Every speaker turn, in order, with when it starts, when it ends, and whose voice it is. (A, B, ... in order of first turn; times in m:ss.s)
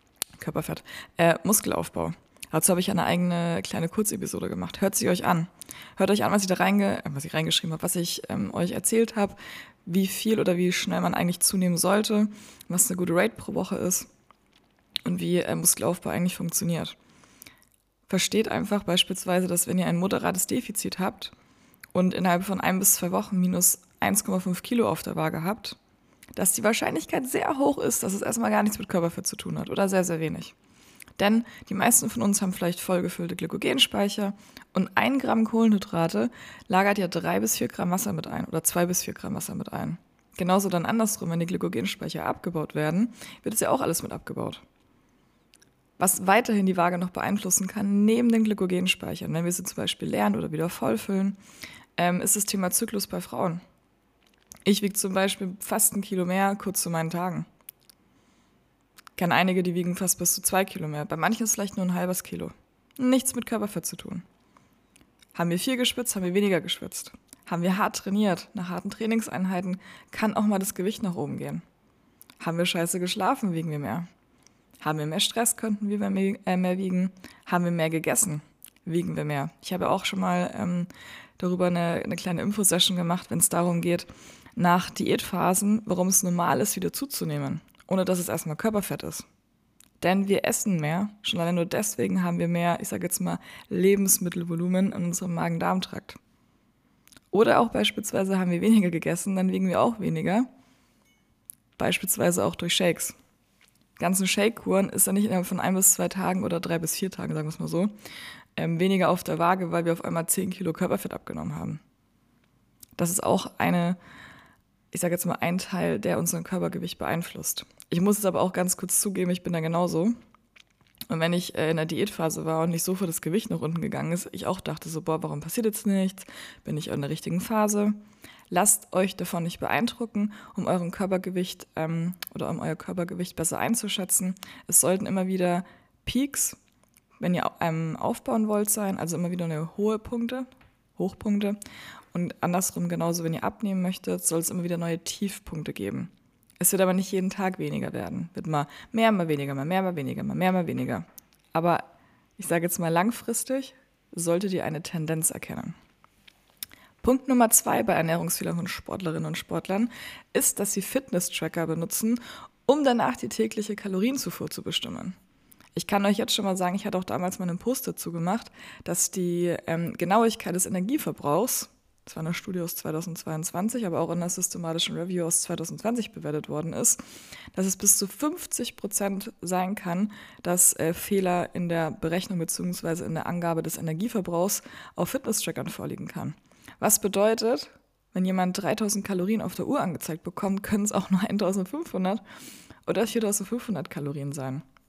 0:00.4-0:14.1 A
0:15.0-0:17.0 A
0:18.1-0:21.3 A
0:21.9-0:25.8 A
0:26.4-0:30.5 A
0:31.2-0:44.6 A
0:46.0-0:51.4 A
0:52.0-0:53.6 A
0:54.6-0:57.5 A
0:59.2-1:04.2 A
1:05.3-1:11.6 A
1:12.4-1:14.1 A
1:14.8-1:29.2 A
1:30.0-1:36.2 A
1:37.3-1:40.5 A
1:41.8-1:43.2 A
1:44.0-1:47.9 A
1:48.6-1:51.8 A
1:53.0-1:54.0 A
1:54.9-2:00.1 A
2:01.1-2:08.0 A
2:08.5-2:16.6 A
2:17.2-2:21.6 A
2:22.1-2:35.8 A
2:37.0-2:45.2 A
2:45.8-2:57.0 A
2:57.5-3:12.2 A
3:12.8-3:14.6 A